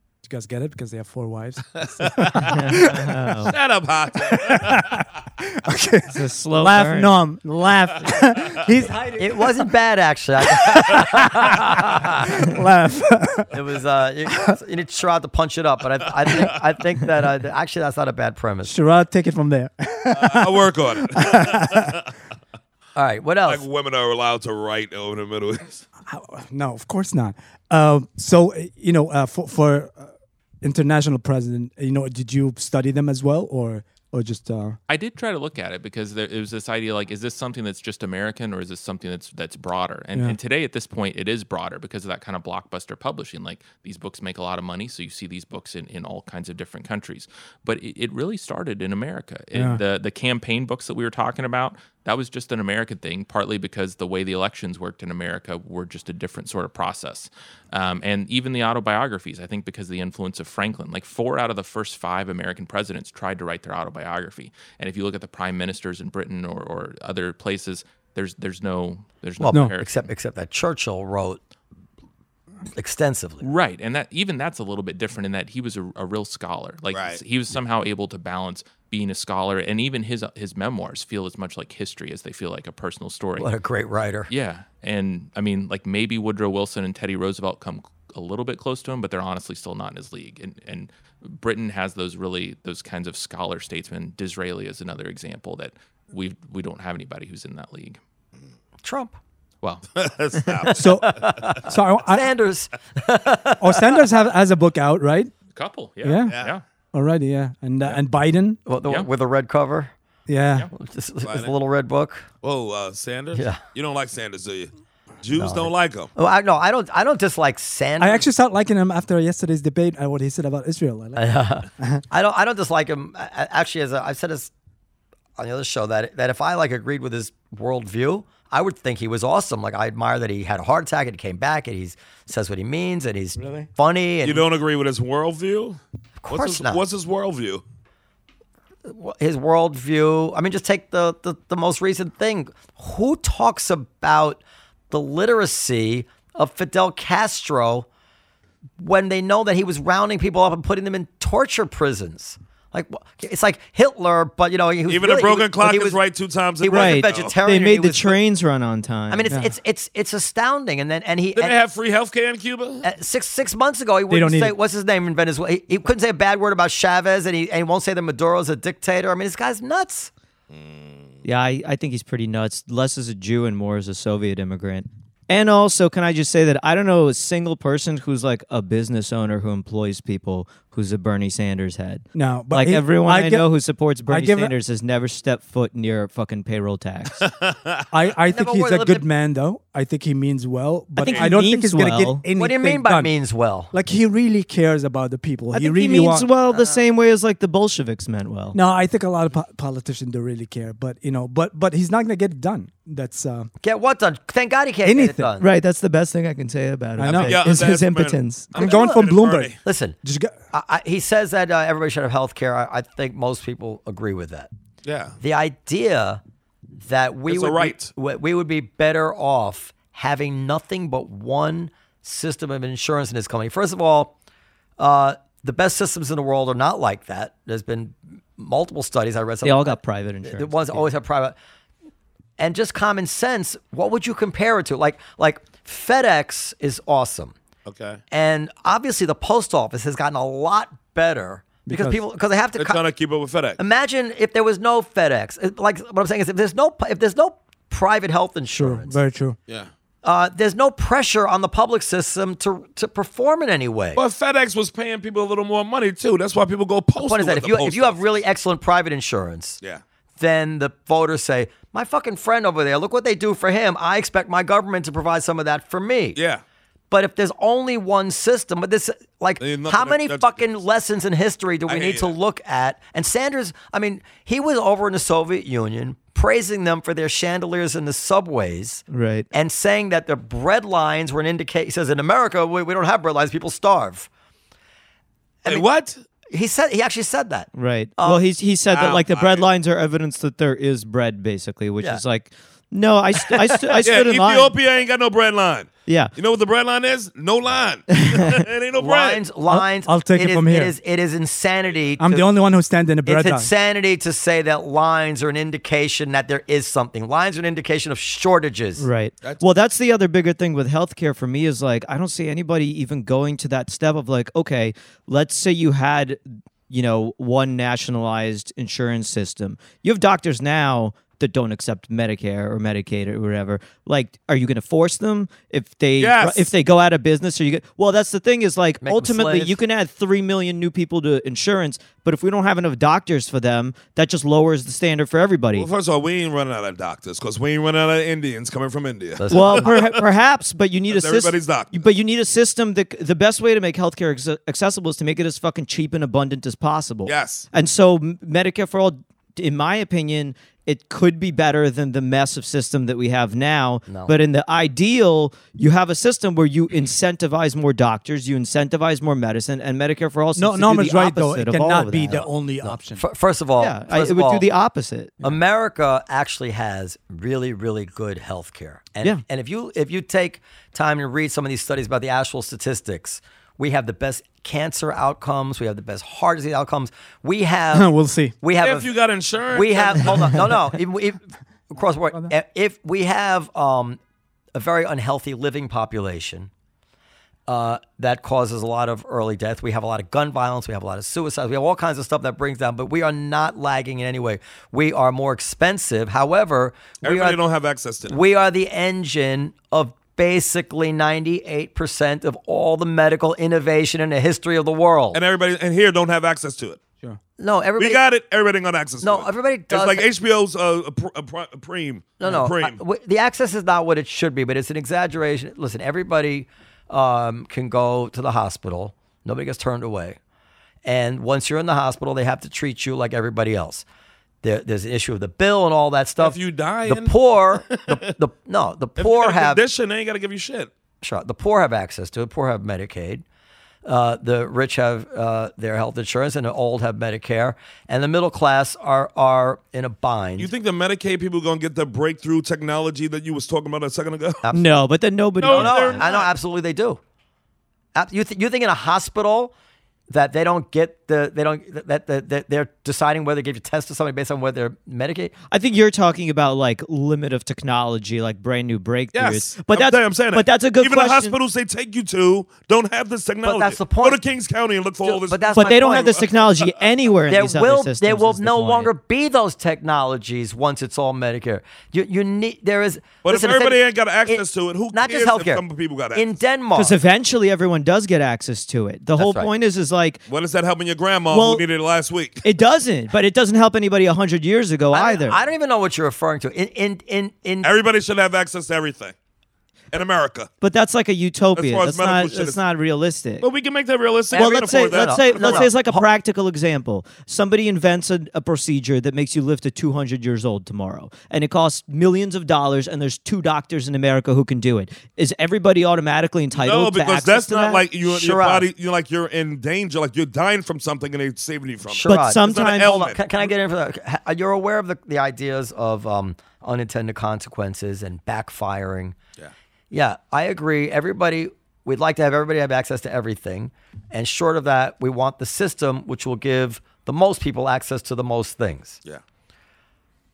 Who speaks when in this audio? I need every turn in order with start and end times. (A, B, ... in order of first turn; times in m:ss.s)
0:00.2-0:03.5 A
0:01.8-0:02.8 B
0:02.5-0:03.5 C
0:03.4-0:05.0 B
0:04.2-0:09.6 A
0:06.1-0:07.2 C
0:08.3-0:08.6 B
0:09.1-0:12.2 D
0:10.5-0:13.5 A
0:13.5-0:18.7 D
0:18.6-0:22.0 A
0:20.1-0:22.0 B
0:23.0-0:23.6 D
0:23.4-0:25.8 B
0:26.1-0:30.1 A
0:30.6-0:34.8 A
0:34.9-1:10.1 E
0:49.5-0:49.8 A
1:09.4-1:11.4 D
1:12.7-1:13.4 D
1:13.4-1:23.5 E
1:16.9-1:17.2 B
1:23.4-1:24.3 D
1:24.3-1:38.0 E
1:38.8-1:39.2 D
1:39.6-1:39.9 E
1:39.9-1:41.4 B
1:40.6-1:44.0 D
1:40.7-1:42.3 A
1:43.6-1:45.3 A
1:45.6-1:46.6 E
1:46.0-1:46.4 A
1:46.3-1:46.5 B
1:46.9-1:48.6 A
1:48.6-1:49.9 D
1:50.3-1:50.7 A
1:50.7-1:52.3 D
1:51.2-1:51.5 B
1:52.4-1:54.7 B
1:53.3-1:53.6 D
1:55.2-1:56.1 B
1:55.4-1:58.2 D
1:58.0-2:02.0 A
2:01.2-2:04.5 D
2:05.4-2:14.4 D
2:13.4-2:13.7 A
2:14.2-2:17.6 B
2:16.2-2:16.8 D
2:18.9-2:27.9 D
2:28.8-2:36.0 D
2:34.9-2:37.4 B
2:36.6-2:38.2 D
2:36.7-2:39.3 C
2:39.1-2:41.6 D
2:41.3-2:42.9 B
2:42.8-2:50.1 D
2:44.1-2:44.5 A
2:50.5-2:51.2 B
2:51.2-3:07.2 C
3:02.1-3:03.5 A
3:04.1-3:04.5 A
3:07.2-3:07.9 B
3:07.9-3:13.1 A
3:08.2-3:09.0 D
3:11.0-3:12.2 C
3:11.0-3:11.3 B
3:12.3-3:13.7 D
3:13.7-3:16.3 A
3:15.5-3:18.6 C
3:16.5-3:16.9 D
3:18.5-3:23.5 A
3:23.6-3:25.5 D
3:24.8-3:25.3 A
3:25.4-3:28.4 C
3:27.0-3:30.3 A
3:27.0-3:29.6 B
3:28.5-3:29.0 D
3:29.6-3:30.0 D
3:30.5-3:34.5 D
3:34.8-3:35.2 B
3:35.2-3:36.2 D
3:36.8-3:44.1 D
3:37.3-3:37.9 B
3:44.8-3:51.4 D
3:49.4-3:50.8 C
3:52.4-3:57.3 D
3:57.6-3:58.0 B
3:58.1-4:02.8 D
4:01.6-4:02.0 A
4:02.6-4:03.6 B
4:03.6-4:09.0 D
4:08.6-4:09.4 A
4:10.0-4:14.0 D
4:14.0-4:18.0 B
4:17.0-4:19.6 D
4:20.2-4:26.2 D
4:26.1-4:26.4 B
4:26.9-4:44.1 D
4:29.4-4:30.4 B
4:31.7-4:32.1 B
4:38.9-4:39.2 C
4:45.4-4:46.0 B
4:46.3-4:48.2 D
4:47.5-4:54.5 C
4:48.7-4:49.5 B
4:53.3-4:53.8 D
4:53.8-4:59.2 B
4:55.9-4:56.1 C
4:58.0-4:58.3 C
4:58.8-5:02.3 D
4:59.5-5:00.7 A
5:02.0-5:03.5 A
5:03.0-5:08.9 D
5:08.8-5:35.7 C
5:26.0-5:26.5 B
5:28.8-5:29.6 D
5:35.5-5:40.0 B
5:39.2-5:39.8 D
5:39.3-6:02.3 C
5:40.9-5:41.8 B
5:47.0-5:47.5 B
5:53.9-5:54.2 D
6:00.4-6:03.0 A
6:02.1-6:04.5 D
6:03.6-6:05.3 C
6:05.2-6:18.9 D
6:17.7-6:18.3 A
6:18.6-6:20.4 B
6:19.5-6:24.0 D
6:24.5-6:26.5 D
6:27.5-6:37.4 D
6:37.0-6:38.2 B
6:38.1-6:45.2 D
6:45.1-6:46.8 B
6:47.4-6:48.0 D
6:47.8-6:52.8 B
6:49.0-6:50.0 D
6:52.2-7:00.2 D
7:00.8-7:03.8 D
7:04.4-7:09.6 D
7:06.2-7:08.1 B
7:09.0-7:10.7 B
7:11.0-7:13.2 D
7:13.8-7:20.5 D
7:20.4-7:24.4 B
7:24.5-7:26.0 C
7:25.4-7:26.3 B
7:25.4-7:27.0 D
7:27.9-7:29.5 D
7:30.1-7:35.3 D
7:35.5-7:41.4 C
7:39.1-7:46.6 B
7:43.4-7:44.2 D
7:45.0-7:46.2 D
7:45.5-7:48.9 C
7:47.3-7:57.0 D
7:53.2-7:56.3 B
7:56.8-8:00.2 C
7:59.2-7:59.5 D
8:00.3-8:02.4 B
8:01.3-8:01.6 C
8:02.4-8:05.4 C
8:04.9-8:07.7 D
8:07.6-8:09.1 B
8:09.9-8:10.5 B
8:10.6-8:13.5 C
8:11.5-8:12.6 B
8:13.4-8:15.7 B
8:14.3-8:16.1 D
8:14.3-8:27.9 C
8:26.5-8:33.5 B
8:28.0-8:28.7 D
8:31.9-8:39.2 D
8:32.1-8:33.0 C
8:39.9-8:49.0 D